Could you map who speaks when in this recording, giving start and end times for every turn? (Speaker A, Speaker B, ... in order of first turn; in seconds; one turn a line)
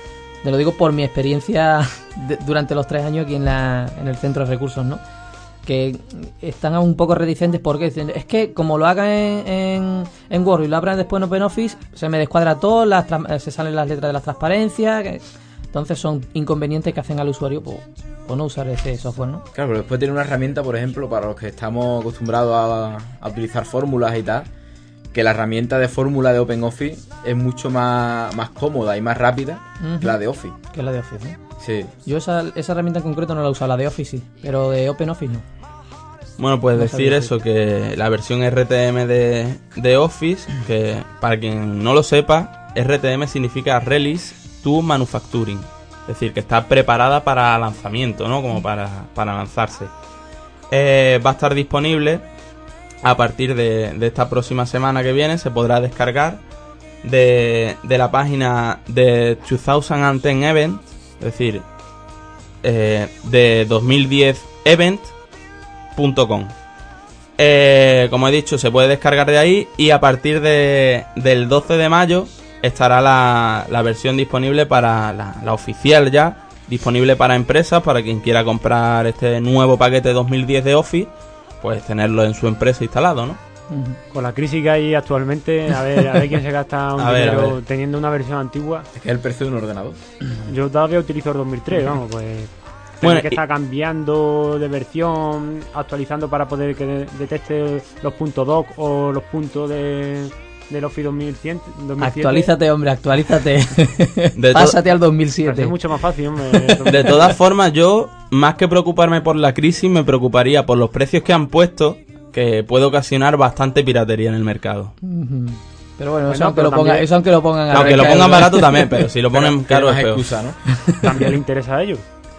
Speaker A: 0.4-5.0
Speaker A: 5.7-15.2
Speaker A: 15.7-19.4
Speaker B: 19.5-24.5
Speaker B: 25.1-30.5
Speaker A: 29.8-30.2
Speaker A: 30.7-31.4
Speaker B: 31.6-31.9
Speaker A: 32.0-35.4
Speaker C: 36.4-49.9
Speaker A: 36.8-37.3
Speaker C: 50.7-52.2
Speaker C: 53.0-56.4
Speaker C: 57.0-61.6
Speaker C: 62.6-65.1
Speaker C: 66.0-66.5
Speaker C: 67.4-81.1
Speaker C: 81.6-83.4
Speaker A: 83.7-84.0
Speaker D: 84.1-88.9
Speaker C: 87.0-87.6
Speaker B: 88.9-90.0
Speaker D: 90.5-102.5
Speaker C: 93.0-93.4
Speaker A: 102.0-105.7
Speaker C: 104.3-104.8
Speaker D: 105.4-107.3
Speaker C: 106.9-114.9
Speaker A: 115.0-118.9
Speaker D: 116.3-117.1
Speaker C: 117.7-120.2
Speaker B: 119.3-120.6
Speaker D: 121.0-122.0